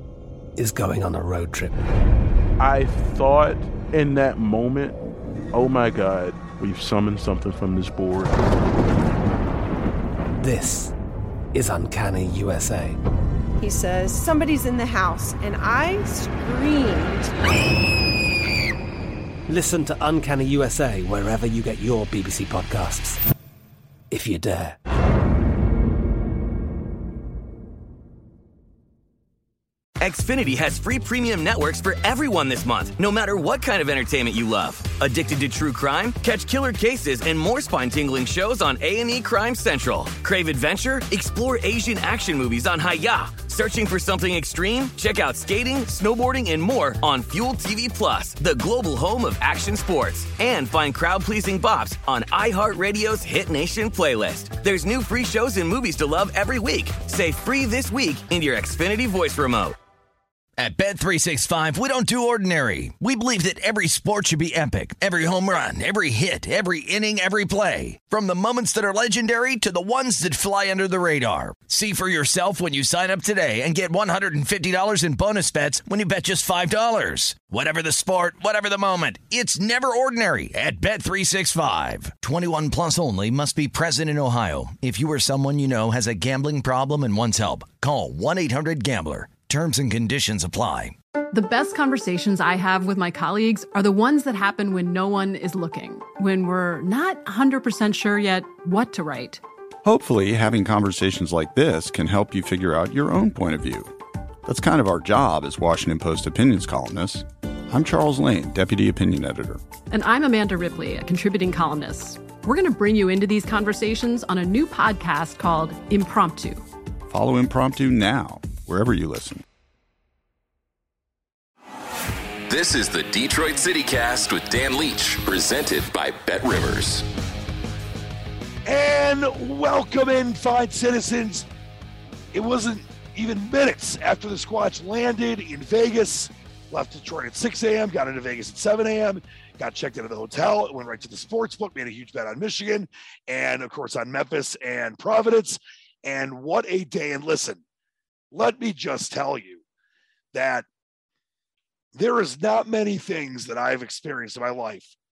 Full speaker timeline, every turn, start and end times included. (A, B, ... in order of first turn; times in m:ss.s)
0:00.6-0:01.8 A
0:02.6-0:05.0 B
0:05.5-0:08.4 B
0:10.4-0:10.9 A
0:11.5-0:13.0 A
0:13.6-0:17.3 C
0:19.5-0:23.2 A
0:24.1-0:24.8 A
0:30.0-0:59.8 D
1:00.6-1:31.0 E
1:31.3-1:39.4 F
1:39.8-1:43.9 G
1:44.5-1:49.6 G
1:49.9-1:56.6 F
1:57.1-1:59.4 G
2:02.5-2:07.1 H
2:08.7-2:11.5 I
2:12.3-2:27.6 I
2:28.3-2:29.6 I
2:30.3-2:30.7 I
2:32.0-2:34.9 I